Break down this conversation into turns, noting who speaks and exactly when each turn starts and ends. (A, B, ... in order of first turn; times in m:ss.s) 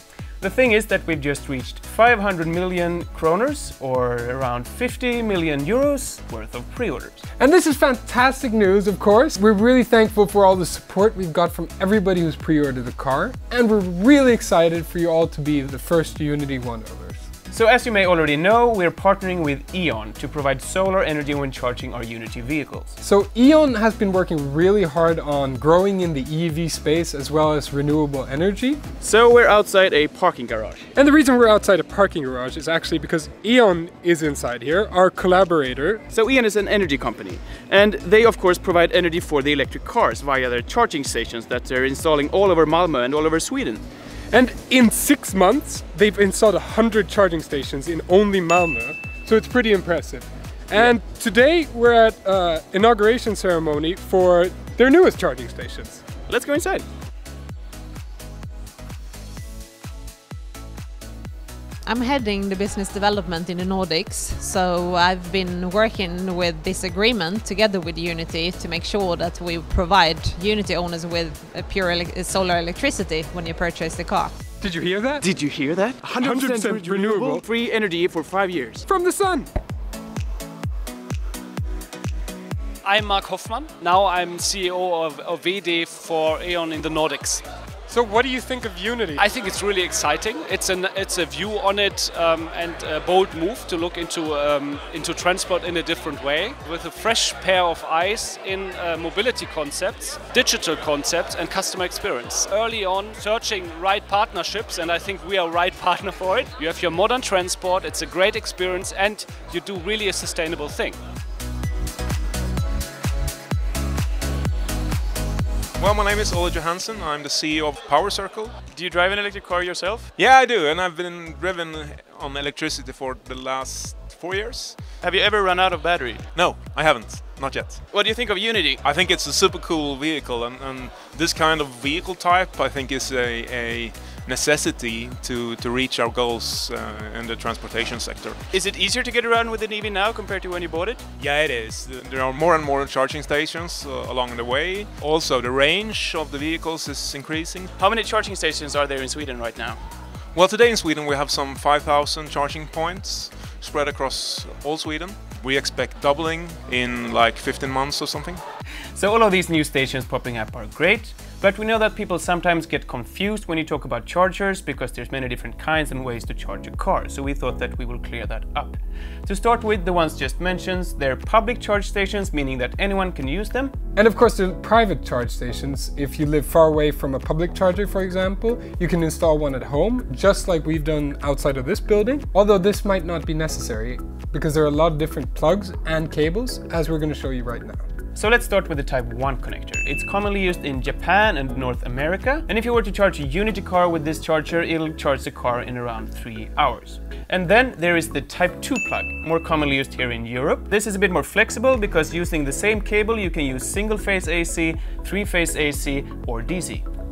0:00.4-0:07.3 A
0:07.4-0:17.3 B
0:17.5-0:23.0 A
0:23.0-0:28.8 B
0:29.0-0:30.9 A
0:31.0-0:36.0 B
0:36.1-0:43.8 A
0:44.3-0:56.0 B
0:56.3-0:56.9 A
1:01.9-1:14.3 C
1:14.6-1:15.3 B
1:15.2-1:18.8 A
1:16.2-1:17.5 B
1:18.9-1:19.5 B
1:22.8-1:27.4 D
1:27.9-1:29.2 B
1:29.2-1:51.0 D
1:55.8-1:58.5 E
1:58.7-2:00.1 A
2:00.2-2:04.8 E
2:05.0-2:06.3 A
2:06.4-2:07.9 E
2:07.9-2:08.8 A
2:08.8-2:18.4 E
2:18.5-2:21.0 A
2:21.2-2:27.7 E
2:27.8-2:29.8 A
2:30.3-2:38.4 E
2:38.9-2:53.8 A
2:54.0-3:07.8 B
3:08.2-3:26.8 A